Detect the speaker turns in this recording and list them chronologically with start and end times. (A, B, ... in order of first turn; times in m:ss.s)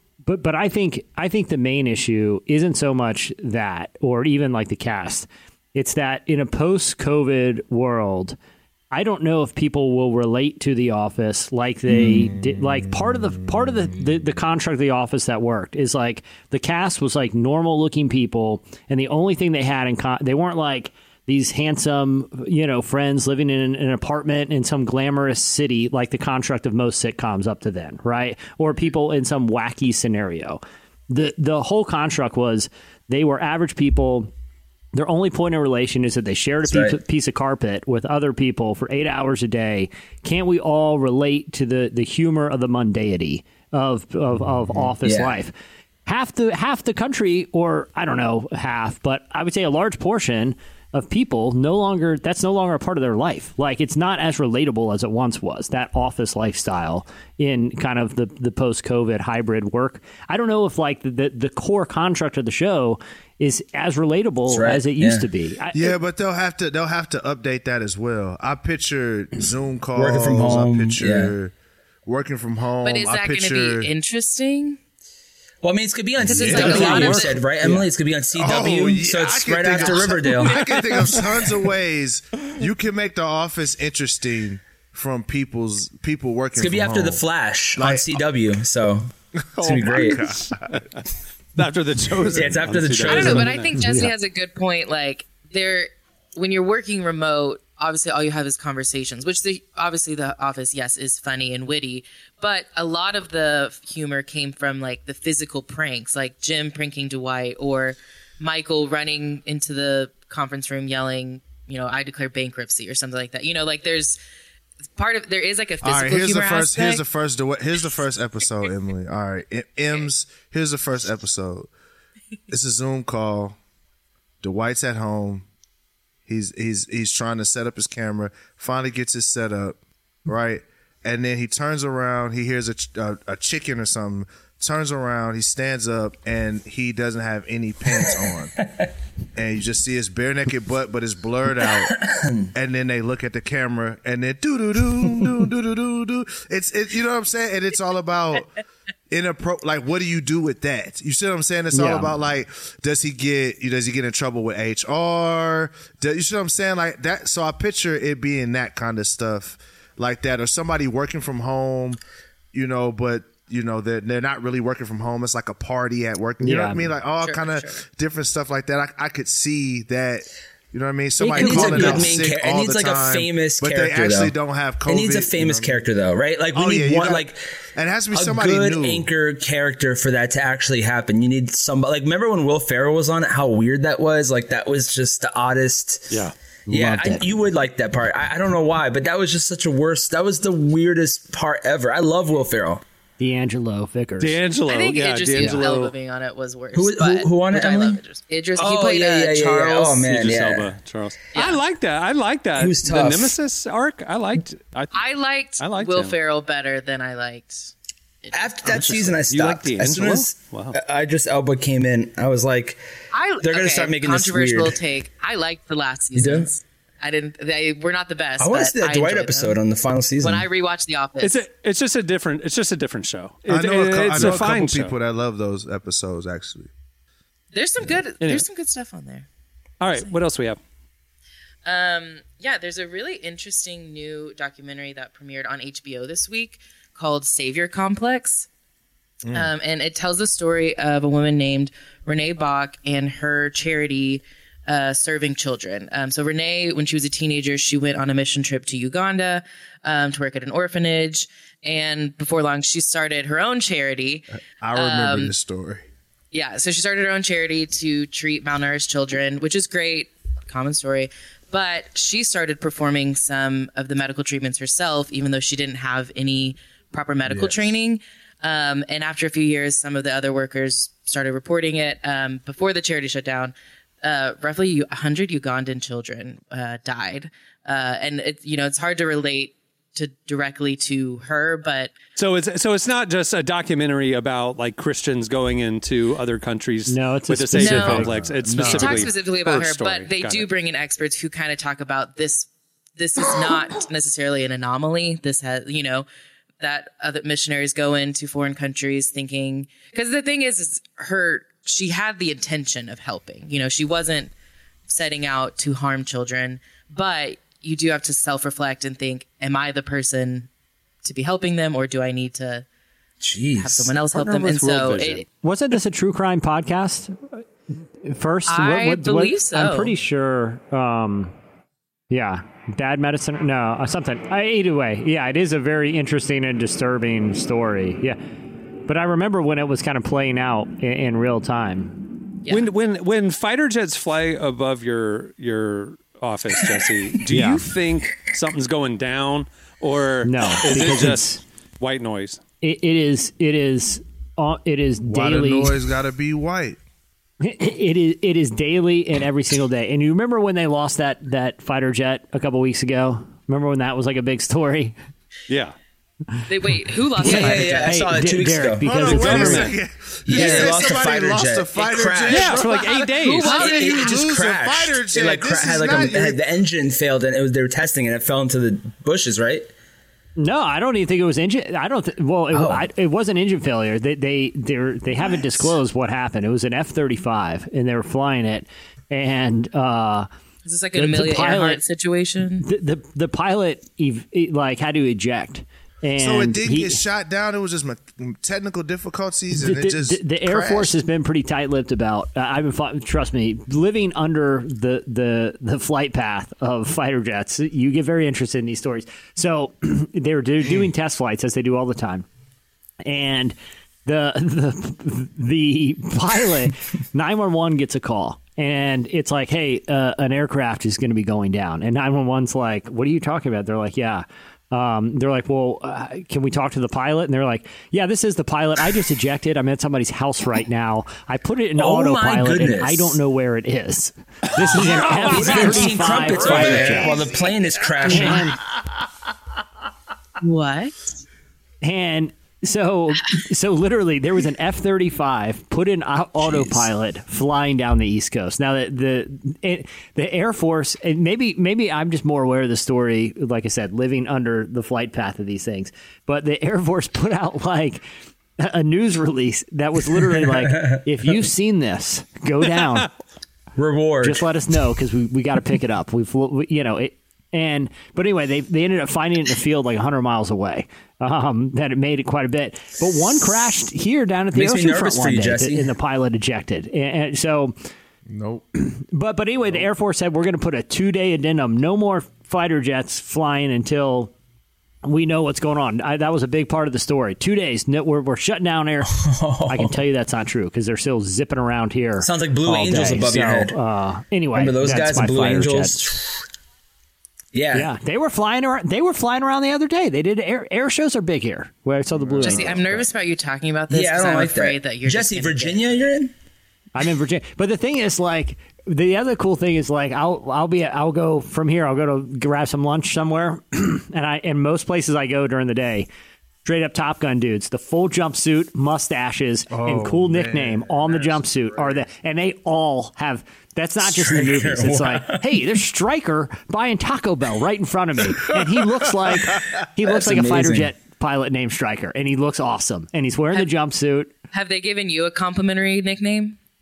0:00.3-0:08.4 A
0:08.9-0:34.3 A
0:11.9-0:13.8 B
0:34.9-0:45.5 A
0:36.7-0:37.0 C
0:45.0-0:45.4 C
0:46.1-1:05.9 A
1:04.5-1:05.3 C
1:05.7-1:11.5 B
1:10.0-1:11.4 C
1:12.1-1:13.9 B
1:12.8-1:14.8 D
1:15.6-1:21.0 C
1:16.2-1:17.2 B
1:16.3-1:17.4 D
1:16.5-1:17.1 E
1:18.4-1:27.2 B
1:20.5-1:21.2 E
1:26.6-1:30.3 C
1:27.8-1:28.2 B
1:29.5-1:30.8 B
1:31.6-1:33.7 E
1:32.3-1:33.5 C
1:33.1-1:54.2 D
1:33.8-1:34.1 A
1:55.0-1:57.0 D
1:55.8-2:01.7 B
2:02.5-2:03.6 B
2:04.4-2:05.5 B
2:06.3-2:18.5 B
2:19.4-2:22.0 B
2:22.0-2:22.5 C
2:22.5-2:28.5 B
2:29.1-2:42.0 B
2:31.7-2:32.1 A
2:42.5-2:55.8 B
2:46.4-2:46.9 A
2:47.2-2:47.8 D
2:51.2-2:52.2 A
2:51.3-2:54.4 C
2:54.9-2:57.4 C
2:56.5-2:59.1 B
2:58.1-3:12.8 C
3:06.7-3:07.4 A
3:13.2-3:14.4 A
3:14.2-3:15.9 E
3:14.7-3:20.1 D
3:16.7-3:18.0 C
3:18.6-3:20.7 C
3:20.0-3:25.0 E
3:21.3-3:21.6 D
3:22.6-3:23.4 C
3:24.9-3:27.7 D
3:25.6-3:26.2 E
3:28.2-3:28.5 D
3:28.3-3:32.8 C
3:28.7-3:30.8 E
3:33.1-3:39.6 D
3:33.4-3:34.8 C
3:36.2-3:36.5 C
3:38.4-3:40.5 C
3:40.2-3:41.4 D
3:41.2-3:45.0 E
3:43.5-3:46.7 B
3:47.5-3:49.3 D
3:48.2-3:48.5 E
3:49.8-3:50.6 E
3:51.6-3:58.5 D
3:59.3-3:59.5 B
3:59.3-4:15.3 D
4:14.6-4:15.8 B
4:16.3-4:42.0 D
4:27.2-4:27.8 B
4:42.2-4:50.5 E
4:46.9-4:48.2 A
4:47.6-4:56.1 D
4:47.6-4:49.1 B
4:56.6-5:04.3 D
5:04.9-5:10.5 D
5:11.0-5:12.6 D
5:13.2-5:13.9 C
5:13.6-5:15.3 D
5:14.1-5:15.2 E
5:15.4-5:17.4 A
5:18.0-5:21.3 A
5:18.5-5:19.9 D
5:22.1-5:28.2 A
5:28.9-5:32.1 A
5:32.5-5:42.4 E
5:37.3-5:37.6 A
5:40.2-5:41.4 A
5:42.6-5:45.8 A
5:45.0-5:46.8 B
5:47.4-5:55.0 A
5:55.5-5:55.8 E
5:56.5-5:58.0 D
5:57.2-5:59.7 A
5:57.2-5:59.6 C
5:58.8-6:02.9 B
5:59.1-5:59.8 E
6:00.3-6:02.6 C
6:02.3-6:03.7 E
6:02.5-6:04.2 D
6:03.4-6:06.4 B
6:03.5-6:09.7 C
6:10.4-6:20.3 A
6:12.5-6:12.9 C
6:20.6-6:22.7 D
6:21.0-6:21.8 A
6:22.6-6:27.0 A
6:26.2-6:31.0 B
6:29.6-6:42.3 A
6:43.0-7:07.2 A
7:01.8-7:03.2 C
7:04.8-7:06.9 E
7:04.8-7:08.5 C
7:08.0-7:08.6 A
7:10.4-7:11.1 D
7:11.8-7:28.0 A
7:16.4-7:16.9 C
7:28.6-7:33.1 A
7:30.4-7:30.9 C
7:33.8-7:34.5 C
7:34.2-7:47.8 A
7:44.5-7:46.0 C
7:48.3-7:48.7 B
7:48.8-7:54.3 A
7:55.0-7:59.2 A
7:59.0-8:00.0 C
7:59.7-8:06.1 A
8:02.2-8:03.8 C
8:04.5-8:06.4 C
8:07.5-8:07.9 C
8:07.7-8:12.9 A
8:12.1-8:13.1 B
8:12.4-8:15.8 D
8:13.9-8:16.3 C
8:17.0-8:26.1 A
8:26.6-8:44.3 A
8:29.7-8:32.0 B
8:34.0-8:35.6 C
8:40.0-8:40.9 C
8:44.5-8:46.6 D